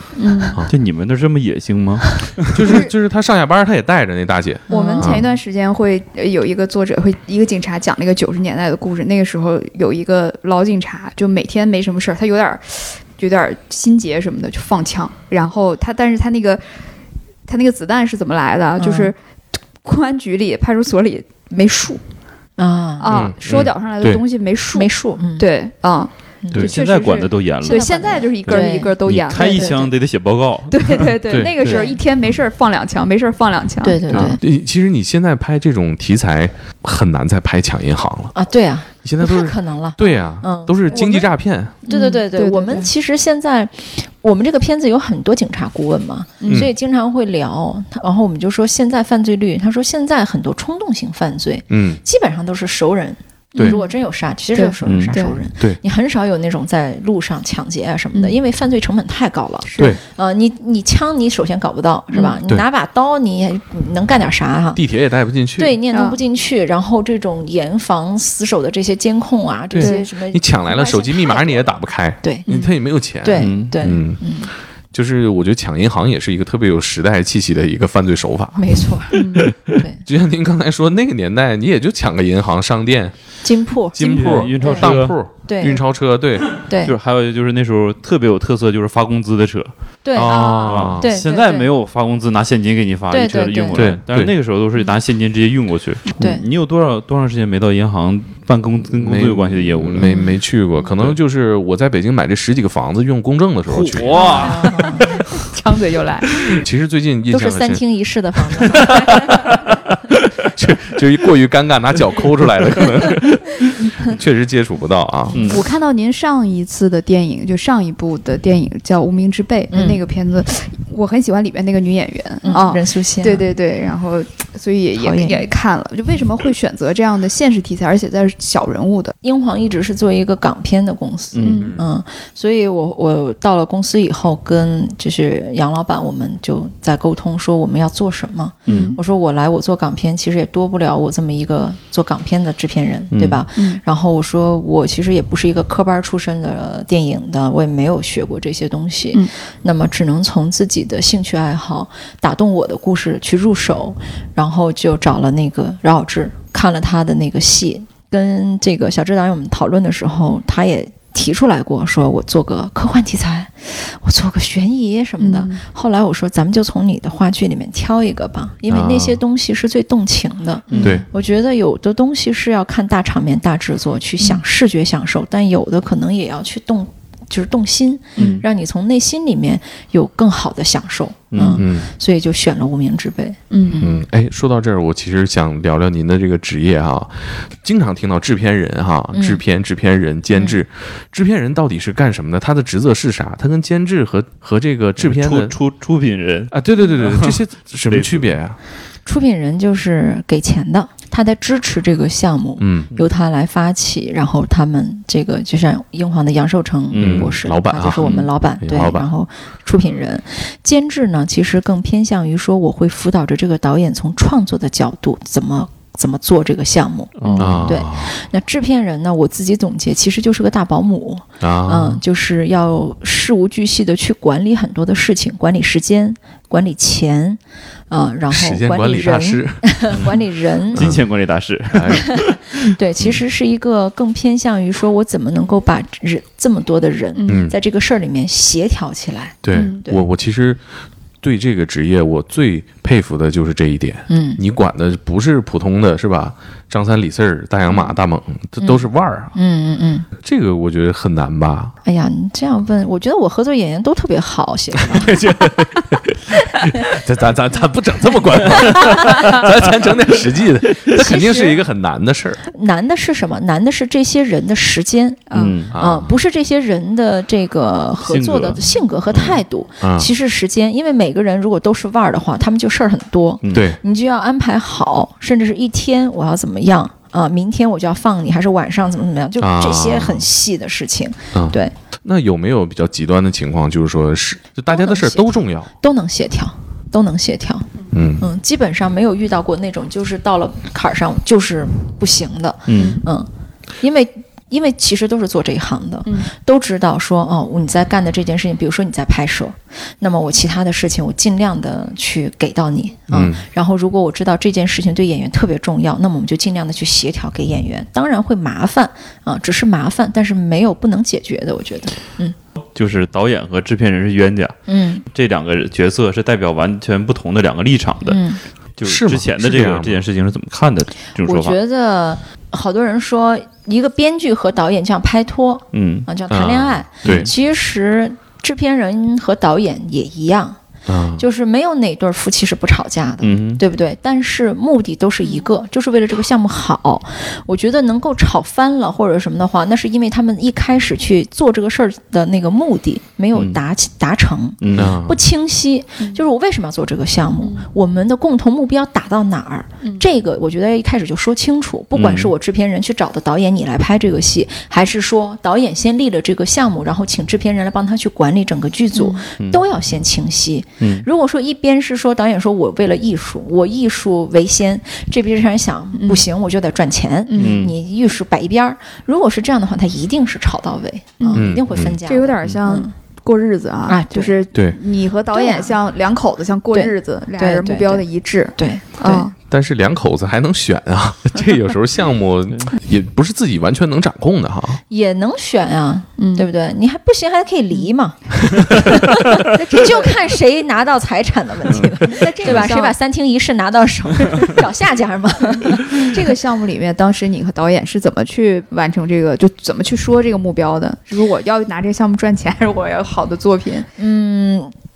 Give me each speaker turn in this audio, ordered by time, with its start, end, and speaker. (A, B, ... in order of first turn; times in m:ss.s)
0:00.2-0:00.6 A
0:00.7-0:02.8 B
0:02.5-0:05.3 C
0:04.7-0:05.2 D
0:04.7-0:16.6 A
0:17.5-0:19.2 A
0:18.8-0:19.1 D
0:19.8-0:22.0 A
0:22.6-0:23.1 D
0:23.0-0:29.9 A
0:23.1-0:24.2 C
0:24.7-0:25.5 D
0:26.4-0:26.7 D
0:26.6-0:27.8 B
0:27.6-0:29.9 D
0:28.4-0:31.9 B
0:30.7-0:34.2 A
0:31.3-0:31.5 C
0:31.6-0:32.0 D
0:33.8-0:34.4 D
0:34.1-0:38.3 C
0:38.4-0:41.3 D
0:39.0-0:41.7 C
0:40.9-0:41.3 A
0:41.9-0:42.9 A
0:41.9-1:04.8 D
0:46.4-0:46.7 A
0:51.7-0:52.0 C
0:53.6-0:54.0 A
0:54.5-0:55.4 A
0:54.8-0:55.1 B
0:59.6-1:00.0 A
1:02.1-1:02.4 A
1:04.7-1:05.8 C
1:05.6-1:11.4 D
1:05.9-1:06.2 A
1:09.7-1:14.2 C
1:09.8-1:10.0 A
1:10.7-1:11.6 A
1:12.2-1:12.5 D
1:12.4-1:12.7 A
1:13.2-1:14.5 D
1:13.4-1:13.7 B
1:14.9-1:23.1 C
1:18.6-1:20.0 D
1:19.1-1:19.5 A
1:23.4-1:25.8 D
1:23.9-1:26.5 C
1:24.0-1:25.2 B
1:26.6-1:26.9 D
1:26.8-1:29.7 B
1:30.0-1:31.7 D
1:30.1-1:31.2 C
1:30.2-1:30.9 A
1:30.6-1:40.1 B
1:33.1-1:33.9 D
1:33.7-1:34.3 C
1:39.0-1:44.4 C
1:43.7-1:44.9 B
1:44.1-1:45.2 D
1:44.1-1:46.4 A
1:46.4-1:47.8 C
1:47.3-1:48.9 D
1:48.6-1:49.6 C
1:50.4-1:55.5 C
1:55.3-1:55.6 B
1:55.5-2:09.1 A
1:59.7-2:00.0 D
2:02.4-2:03.4 D
2:05.0-2:05.5 D
2:09.2-3:03.9 D
2:11.3-2:11.8 B
2:11.4-2:11.8 A
2:18.7-2:19.0 B
2:18.7-2:19.0 A
2:23.1-2:23.4 B
2:23.6-2:23.8 A
2:45.2-2:45.6 A
2:48.7-2:49.2 C
2:50.7-2:51.0 A
2:50.8-2:51.1 C
2:58.2-2:58.4 A
2:58.2-2:58.4 B
3:01.3-3:01.6 B
3:01.6-3:01.9 C
3:03.5-3:03.9 A
3:03.8-3:15.6 C
3:09.1-3:09.4 D
3:10.3-3:10.6 D
3:15.0-3:18.3 B
3:16.5-3:18.6 C
3:19.1-3:50.9 D
3:22.6-3:22.9 C
3:26.9-3:27.4 B
3:27.0-3:29.1 C
3:37.2-3:37.7 B
3:37.4-3:38.1 C
3:41.4-3:42.0 C
3:48.3-3:50.2 C
3:50.7-3:51.1 C
3:50.7-3:52.6 B
3:51.7-3:52.2 C
3:52.7-4:00.0 D
3:57.2-3:57.4 A
3:57.2-3:57.5 C
3:59.4-4:00.6 C
3:59.5-3:59.8 A
4:01.2-4:09.3 C
4:04.1-4:04.4 D
4:08.6-4:10.1 D
4:10.2-4:11.7 C
4:11.8-4:15.2 D
4:14.8-4:22.4 C
4:20.9-4:21.6 D
4:22.5-4:41.7 D
4:25.3-4:25.6 A
4:25.3-4:25.7 B
4:25.7-4:26.1 C
4:28.0-4:28.6 B
4:29.1-4:29.4 B
4:29.8-4:30.1 C
4:33.4-4:33.7 B
4:33.5-4:33.8 C
4:39.4-4:40.2 C
4:41.3-4:45.7 C
4:44.7-4:47.7 D
4:47.9-4:48.2 C
4:48.2-4:53.3 D
4:52.7-4:53.0 B
4:52.7-4:53.0 A
4:53.8-5:12.4 D
5:03.1-5:03.4 C
5:12.7-5:14.6 B
5:14.7-5:15.0 D
5:15.1-5:18.2 B
5:18.1-5:18.4 D
5:18.8-5:21.6 B
5:18.8-5:20.0 C
5:21.2-5:30.6 D
5:25.7-5:26.1 B
5:26.3-5:27.3 C
5:27.0-5:27.3 B
5:30.9-5:31.2 C
5:31.2-6:12.9 D
5:33.2-5:33.6 B
5:44.6-5:45.0 B
5:44.7-5:45.2 C
5:46.0-5:46.2 A
5:47.4-5:47.7 A
5:51.9-5:52.3 B
5:58.9-5:59.2 A
6:00.8-6:01.1 B
6:06.0-6:06.2 A
6:07.3-6:07.7 A
6:07.4-6:07.7 B
6:11.2-6:11.5 A
6:11.3-6:12.0 C
6:12.0-6:19.3 A
6:13.9-6:14.4 D
6:15.3-6:15.8 D
6:16.7-6:18.0 D
6:18.6-6:19.3 D
6:19.5-6:24.8 C
6:24.9-6:36.4 D
6:26.2-6:26.5 A
6:29.4-6:30.2 A
6:31.7-6:32.0 B
6:32.1-6:32.9 A
6:35.5-6:43.9 A
6:44.0-6:44.7 D